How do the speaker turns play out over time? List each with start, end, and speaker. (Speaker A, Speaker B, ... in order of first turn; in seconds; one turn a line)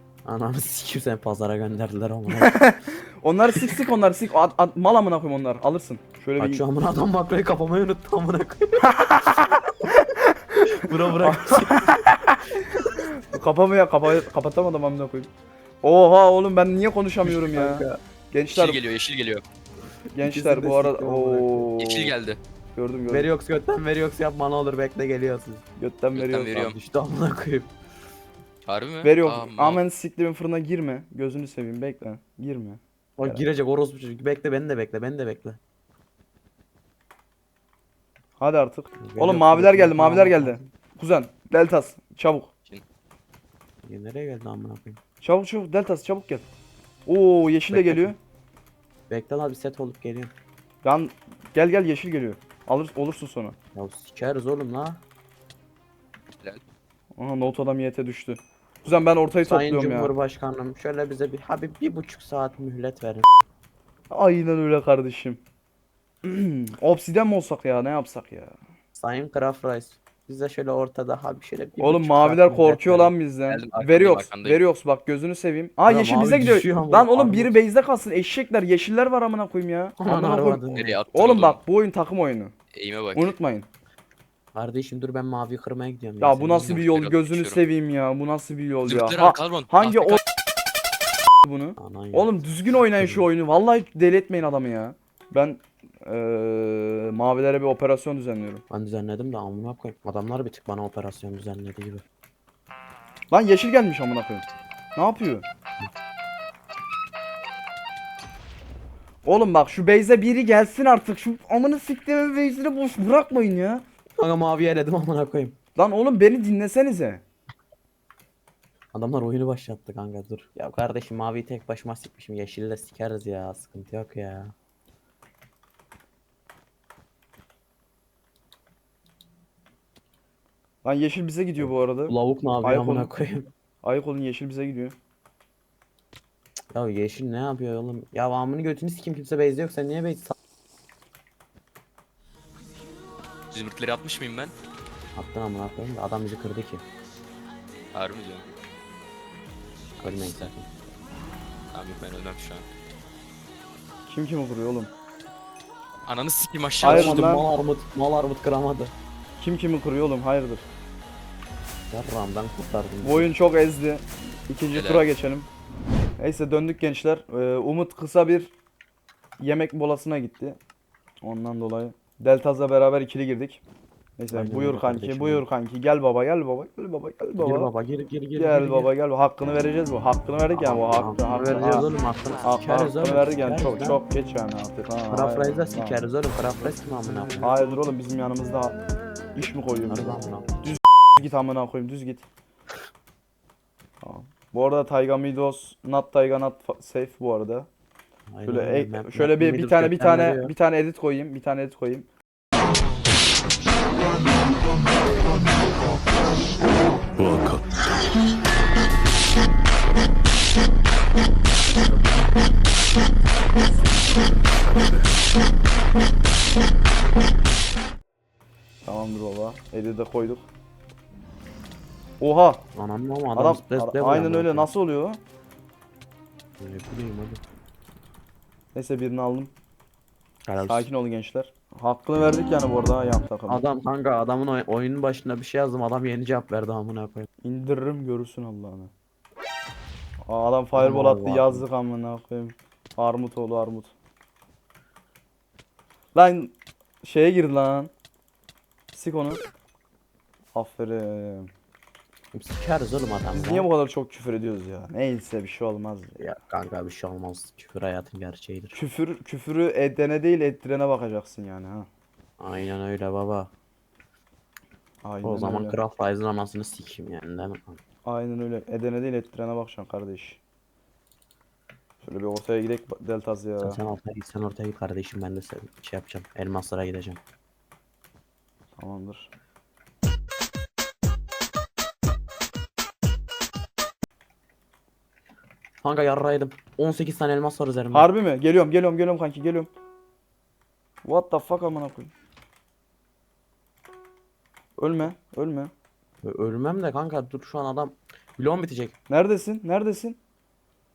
Speaker A: 0.2-2.7
Speaker B: 2.3-6.6
Speaker A: 6.4-9.8
Speaker B: 8.9-15.3
Speaker A: 10.7-12.1
Speaker B: 15.8-18.8
Speaker A: 17.2-18.0
Speaker C: 18.5-19.4
Speaker A: 20.1-21.7
Speaker B: 20.1-22.1
Speaker C: 21.8-22.4
Speaker B: 22.8-23.3
Speaker A: 23.1-25.6
Speaker B: 25.8-26.7
Speaker C: 26.1-26.8
Speaker A: 26.5-27.7
Speaker C: 28.6-29.8
Speaker B: 29.0-33.4
Speaker A: 33.2-35.6
Speaker B: 38.4-42.5
Speaker A: 39.0-40.6
Speaker A: 43.8-45.0
Speaker B: 45.2-46.5
Speaker B: 47.1-48.2
Speaker A: 47.7-48.1
Speaker A: 49.1-50.3
Speaker B: 50.8-53.6
Speaker A: 53.7-55.0
Speaker B: 57.2-60.1
Speaker A: 59.4-63.3
Speaker B: 64.1-65.4
Speaker B: 66.2-68.6
Speaker A: 69.0-73.2
Speaker B: 71.8-82.5
Speaker C: 73.5-74.6
Speaker A: 75.9-77.5
Speaker A: 80.0-81.0
Speaker C: 80.7-81.6
Speaker C: 82.7-83.3
Speaker B: 83.2-83.7
Speaker A: 84.5-86.8
Speaker B: 86.2-90.2
Speaker C: 86.5-87.6
Speaker C: 88.9-90.2
Speaker B: 91.4-98.6
Speaker A: 91.8-92.4
Speaker A: 93.0-93.3
Speaker A: 98.7-102.0
Speaker B: 103.3-105.5
Speaker B: 109.2-113.8
Speaker A: 114.2-115.6
Speaker B: 115.8-117.2
Speaker A: 118.9-124.5
Speaker B: 130.8-133.1
Speaker A: 131.6-133.5
Speaker B: 133.8-135.0
Speaker A: 136.7-140.4
Speaker C: 143.5-144.5
Speaker A: 145.2-146.8
Speaker C: 147.9-148.4
Speaker A: 150.0-150.7
Speaker C: 150.0-150.5
Speaker C: 151.7-152.7
Speaker B: 154.1-154.9
Speaker C: 156.1-157.3
Speaker B: 156.8-157.4
Speaker A: 156.8-158.9
Speaker B: 159.4-160.6
Speaker A: 161.9-163.3
Speaker B: 163.0-165.5
Speaker C: 164.7-165.1
Speaker B: 166.2-168.5
Speaker B: 169.4-170.6
Speaker B: 171.2-173.6
Speaker B: 174.2-177.7
Speaker A: 174.3-175.4
Speaker A: 177.4-178.9
Speaker B: 178.4-181.9
Speaker A: 180.5-184.0
Speaker B: 182.4-186.0
Speaker A: 185.1-187.5
Speaker B: 187.4-188.8
Speaker B: 189.3-192.2
Speaker A: 189.9-190.8
Speaker B: 194.0-197.7
Speaker A: 198.3-200.5
Speaker B: 198.5-202.1
Speaker B: 218.8-220.4
Speaker B: 222.2-222.6
Speaker A: 222.7-224.7
Speaker B: 223.4-225.2
Speaker A: 226.6-227.4
Speaker B: 228.7-229.5
Speaker A: 230.4-230.9
Speaker B: 230.6-233.6
Speaker A: 233.5-237.3
Speaker B: 237.4-238.9
Speaker B: 240.3-243.9
Speaker A: 240.8-241.7
Speaker B: 246.2-247.9
Speaker B: 248.9-249.4
Speaker B: 250.6-251.5
Speaker A: 252.3-253.7
Speaker B: 253.3-256.2
Speaker A: 256.2-258.8
Speaker B: 258.7-261.9
Speaker A: 262.4-263.5
Speaker B: 265.0-265.8
Speaker A: 265.2-267.8
Speaker B: 268.1-270.4
Speaker B: 272.0-273.8
Speaker A: 273.6-277.2
Speaker B: 278.8-279.3
Speaker A: 285.8-288.1
Speaker B: 287.9-289.7
Speaker B: 291.0-292.1
Speaker B: 294.8-295.7
Speaker A: 296.2-298.9
Speaker B: 299.1-300.2